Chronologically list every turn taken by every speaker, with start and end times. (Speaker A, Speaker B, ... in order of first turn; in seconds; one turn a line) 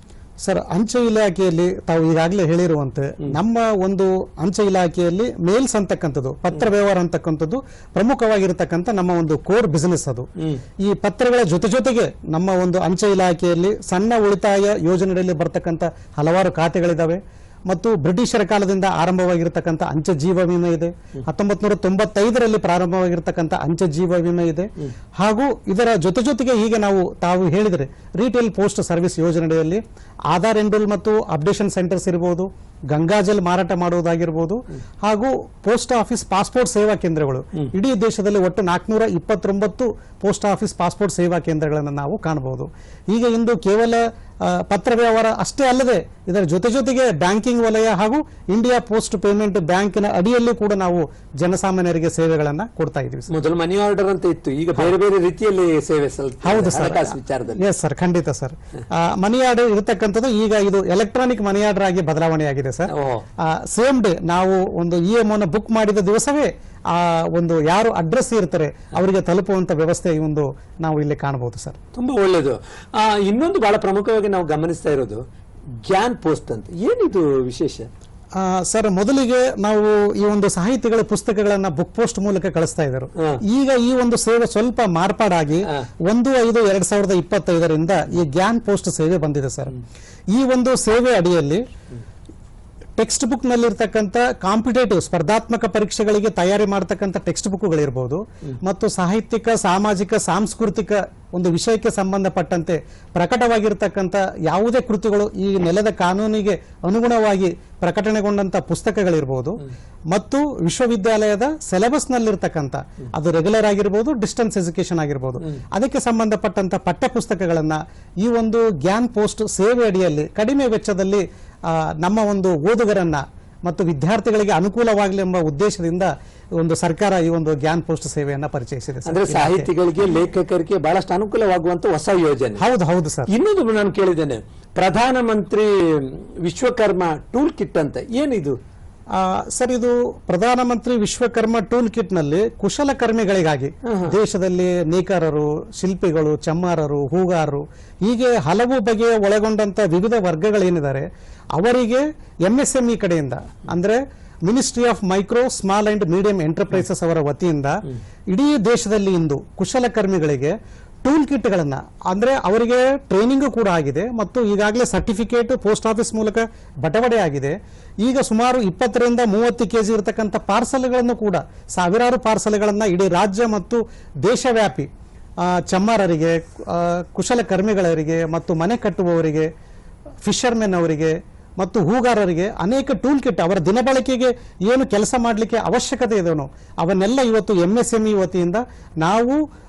Speaker A: 0.4-10.3
Speaker B: 10.4-10.6
Speaker A: 10.8-53.3
Speaker B: 53.3-57.6
Speaker A: 56.4-71.8
Speaker B: 62.9-63.2
Speaker B: 71.9-75.2
Speaker B: 75.8-77.9
Speaker A: 78.3-89.7
Speaker A: 90.3-91.7
Speaker A: 93.0-129.7
Speaker B: 129.1-132.6
Speaker A: 132.6-133.3
Speaker B: 133.3-138.6
Speaker A: 139.1-174.9
Speaker B: 143.8-144.2
Speaker A: 175.4-179.5
Speaker A: 180.2-189.4